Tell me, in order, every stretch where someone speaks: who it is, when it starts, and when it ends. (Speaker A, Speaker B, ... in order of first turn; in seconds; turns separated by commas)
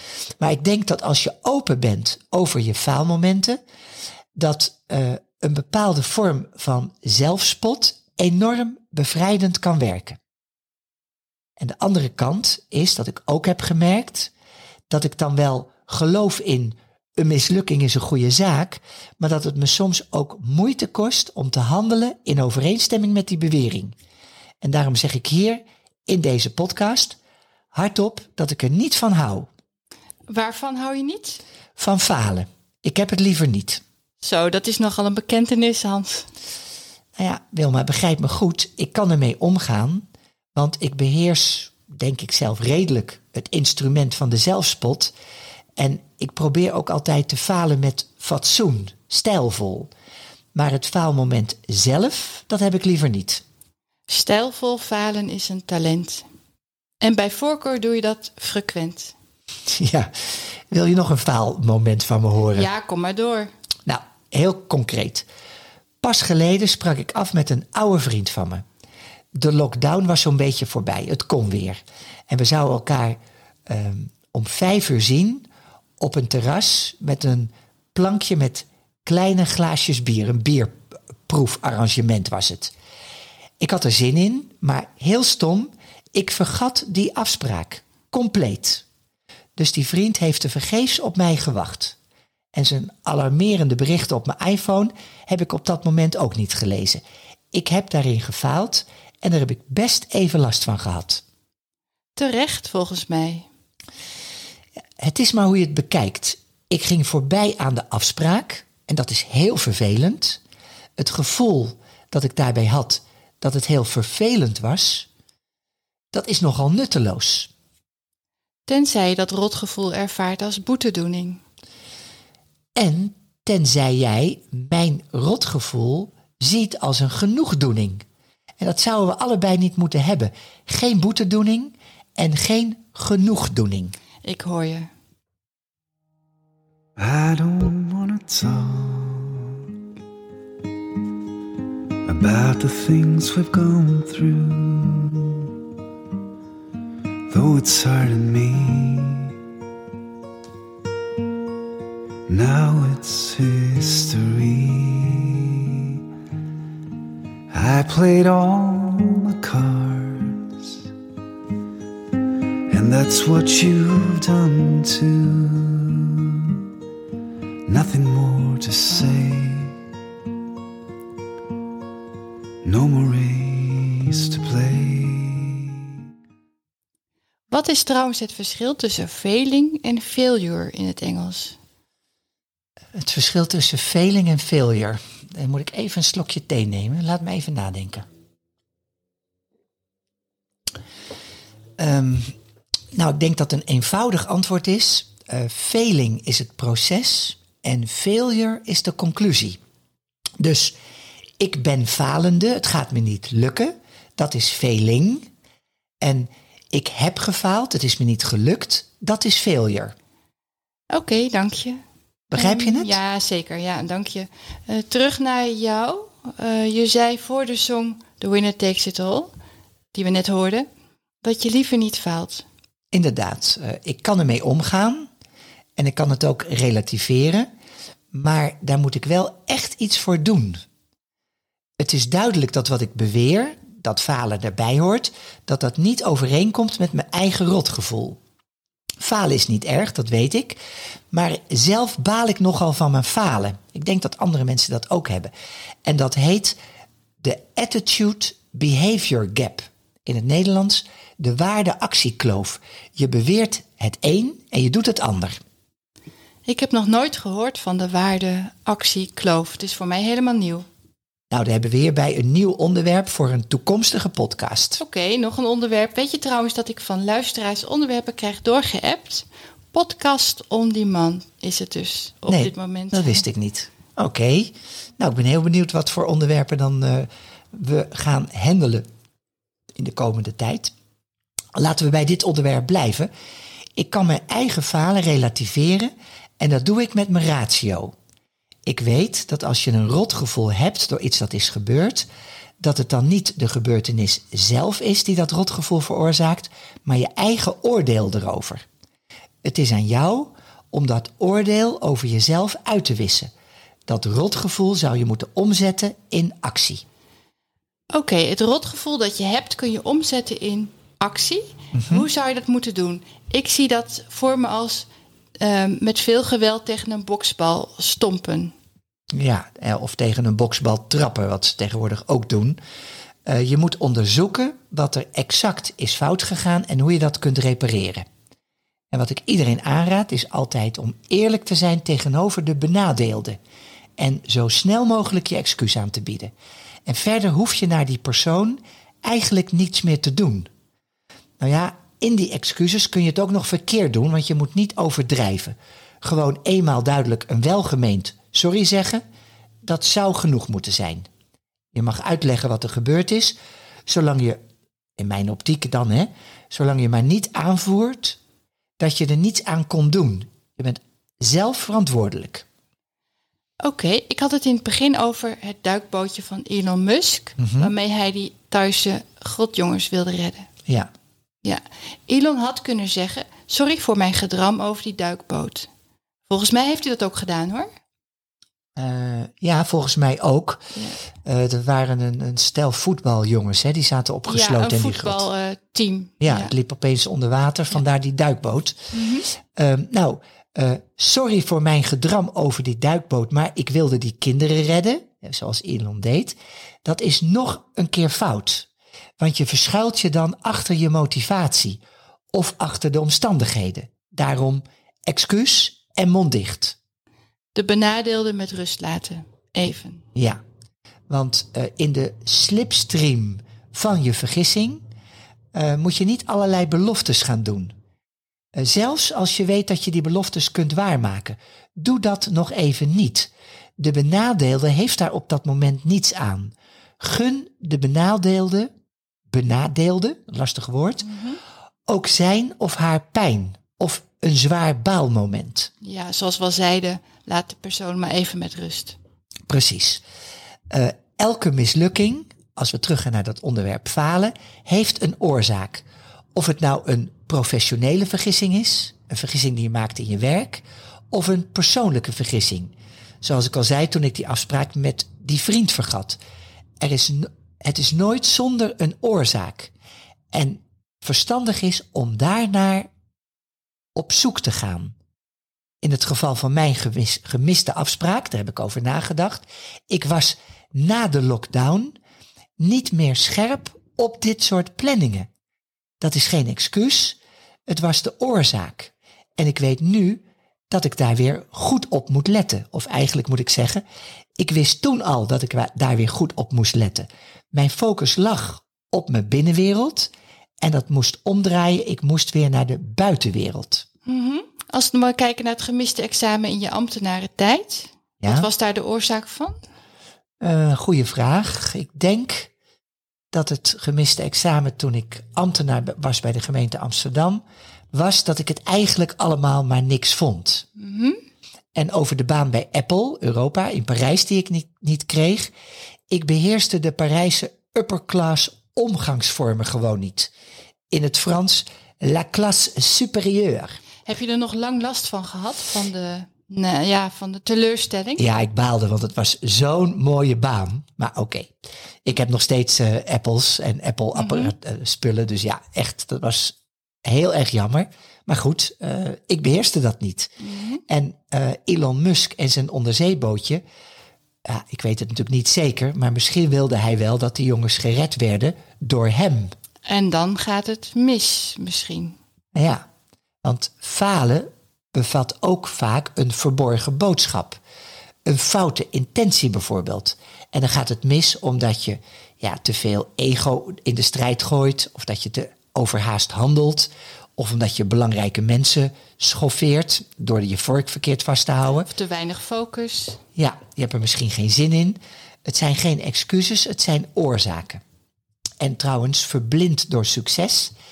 Speaker A: 0.4-3.6, Speaker A: 4.3-10.2, Speaker A: 11.6-14.3, Speaker A: 14.9-23.9, Speaker A: 24.6-27.2, Speaker A: 27.7-29.5, Speaker B: 30.3-31.4, Speaker A: 31.8-33.8, Speaker B: 34.2-36.3, Speaker A: 37.1-45.1, Speaker A: 45.8-49.9, Speaker A: 50.5-53.4, Speaker B: 54.1-56.2, Speaker B: 57.0-59.1, Speaker A: 59.7-60.1, Speaker A: 60.7-62.7, Speaker B: 62.5-63.5, Speaker A: 63.9-65.2, Speaker A: 66.0-68.6, Speaker A: 69.3-75.5, Speaker A: 76.0-82.7, Speaker A: 83.6-88.8, Speaker A: 89.6-92.0, Speaker A: 92.5-101.2, Speaker B: 102.2-103.5, Speaker A: 105.0-110.4, Speaker A: 111.0-115.1, Speaker A: 116.1-117.5, Speaker B: 118.7-121.4, Speaker A: 122.8-128.0, Speaker A: 128.6-133.9, Speaker B: 134.2-134.9, Speaker C: 137.0-139.4, Speaker C: 142.0-145.1, Speaker C: 147.3-149.3, Speaker C: 152.3-155.9, Speaker C: 157.5-160.4, Speaker C: 162.7-166.2, Speaker C: 167.7-169.7, Speaker C: 172.6-175.8, Speaker B: 177.5-181.6, Speaker A: 182.9-188.0, Speaker A: 191.8-192.3, Speaker A: 192.9-199.6, Speaker A: 200.4-200.8, Speaker A: 201.4-205.3, Speaker A: 206.0-209.9, Speaker B: 210.9-211.8, Speaker A: 212.3-213.0, Speaker B: 212.3-219.3, Speaker B: 219.9-220.7, Speaker B: 221.2-222.4, Speaker A: 222.9-225.1, Speaker A: 225.8-227.5, Speaker A: 228.1-230.6, Speaker A: 231.8-238.2, Speaker A: 239.0-240.6, Speaker A: 241.1-245.3, Speaker A: 245.8-246.6, Speaker A: 247.2-255.4, Speaker B: 256.4-260.6, Speaker A: 261.3-264.8, Speaker B: 264.8-273.2, Speaker A: 272.3-278.8, Speaker A: 279.8-280.7, Speaker A: 281.6-283.1, Speaker A: 283.8-287.9, Speaker A: 288.6-292.1, Speaker A: 292.6-298.6, Speaker A: 299.4-303.3, Speaker A: 303.9-306.8, Speaker B: 307.9-314.9, Speaker A: 311.7-312.1, Speaker B: 315.4-318.5, Speaker A: 319.1-322.6, Speaker A: 323.2-328.0, Speaker A: 328.9-333.4, Speaker A: 334.0-336.3, Speaker A: 336.9-340.5, Speaker A: 341.4-349.0, Speaker A: 349.6-351.1, Speaker A: 351.7-353.4, Speaker A: 353.9-354.4, Speaker A: 355.0-358.2, Speaker A: 358.8-362.4, Speaker B: 363.6-370.5, Speaker A: 367.4-367.7, Speaker B: 371.4-375.7, Speaker B: 376.3-377.7, Speaker A: 378.8-380.6, Speaker A: 381.2-385.3, Speaker B: 384.3-386.5, Speaker A: 386.2-388.8, Speaker B: 388.9-389.3, Speaker A: 389.5-398.7, Speaker A: 399.2-401.8, Speaker A: 402.3-406.8, Speaker B: 407.5-410.0, Speaker A: 410.1-410.4, Speaker A: 411.1-414.8, Speaker A: 415.5-417.7, Speaker A: 418.5-428.7, Speaker A: 429.3-431.1, Speaker B: 431.1-431.4, Speaker A: 431.9-435.7, Speaker B: 435.8-439.0, Speaker A: 439.5-440.0, Speaker A: 440.7-456.2, Speaker A: 456.8-459.7, Speaker A: 460.3-462.9, Speaker A: 463.9-464.9, Speaker A: 465.8-471.9, Speaker A: 472.6-475.3, Speaker A: 476.0-477.2, Speaker A: 477.7-483.8, Speaker A: 484.4-493.8, Speaker B: 494.1-499.6, Speaker A: 498.2-498.5, Speaker A: 500.4-502.5, Speaker A: 503.3-510.6, Speaker B: 510.8-511.2, Speaker A: 511.7-515.5, Speaker A: 516.1-520.3, Speaker A: 520.9-523.8, Speaker B: 524.0-528.2, Speaker A: 528.2-540.3, Speaker B: 534.1-534.5, Speaker B: 540.4-540.8, Speaker A: 540.9-543.6, Speaker A: 544.4-549.5, Speaker B: 549.9-552.2, Speaker A: 552.5-552.8, Speaker A: 553.4-557.6, Speaker A: 558.2-571.9, Speaker B: 571.8-573.2, Speaker A: 573.4-577.8, Speaker A: 578.6-580.7